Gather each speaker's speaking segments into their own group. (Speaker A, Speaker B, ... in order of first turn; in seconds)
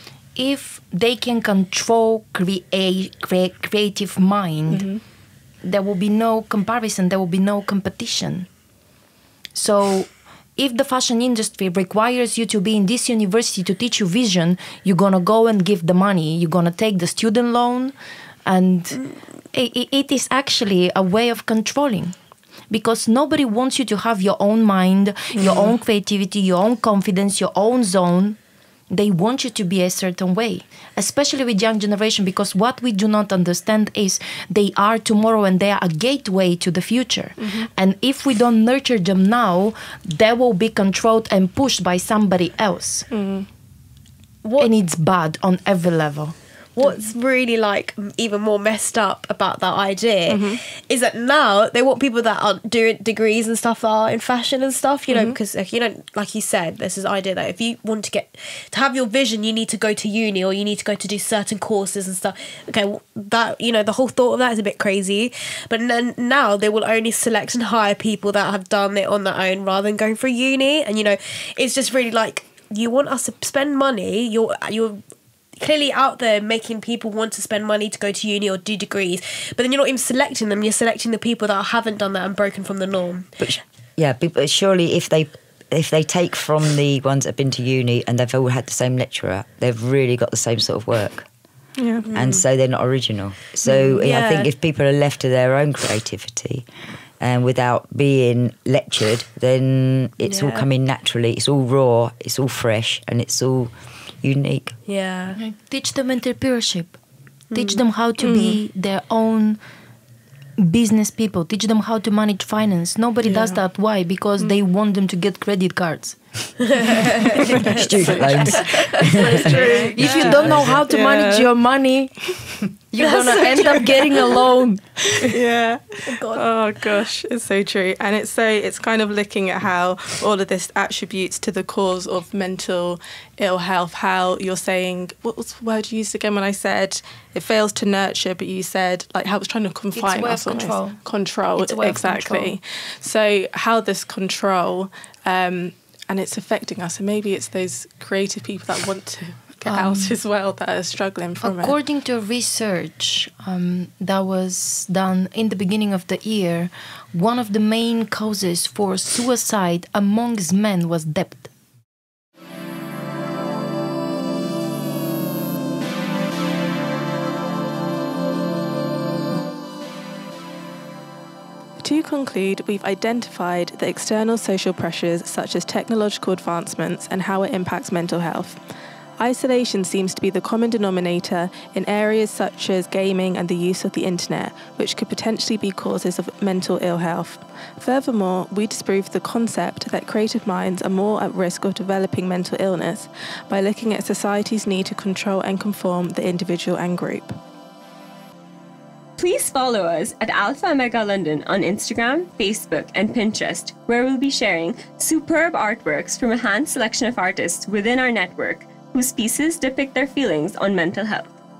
Speaker A: 0.4-4.9, 5.6-8.5, 9.6-17.9, 18.5-22.2, 22.7-28.4, 28.9-43.1, 44.6-46.4, 105.4-107.0, 107.5-109.6, 110.6-117.4, 119.5-122.3, 122.8-125.3, 139.9-141.0, 141.6-142.6, 149.7-150.2, 151.4-161.5
Speaker B: 4.7-5.0, 25.4-25.7, 37.4-37.7, 43.1-43.5, 50.3-50.6, 55.1-55.4, 91.8-92.1, 108.2-108.6, 117.5-121.5, 125.3-151.8, 171.8-178.6, 179.2-197.4
Speaker C: 44.4-44.7, 46.8-75.0, 75.6-83.5, 92.1-92.4, 93.7-94.5, 100.3-100.7, 104.9-105.4, 107.5-107.8, 116.9-120.5, 123.0-124.1, 126.1-126.5
Speaker D: 83.4-91.3, 92.1-96.7, 97.2-104.7, 117.7-119.6
Speaker E: 199.2-211.3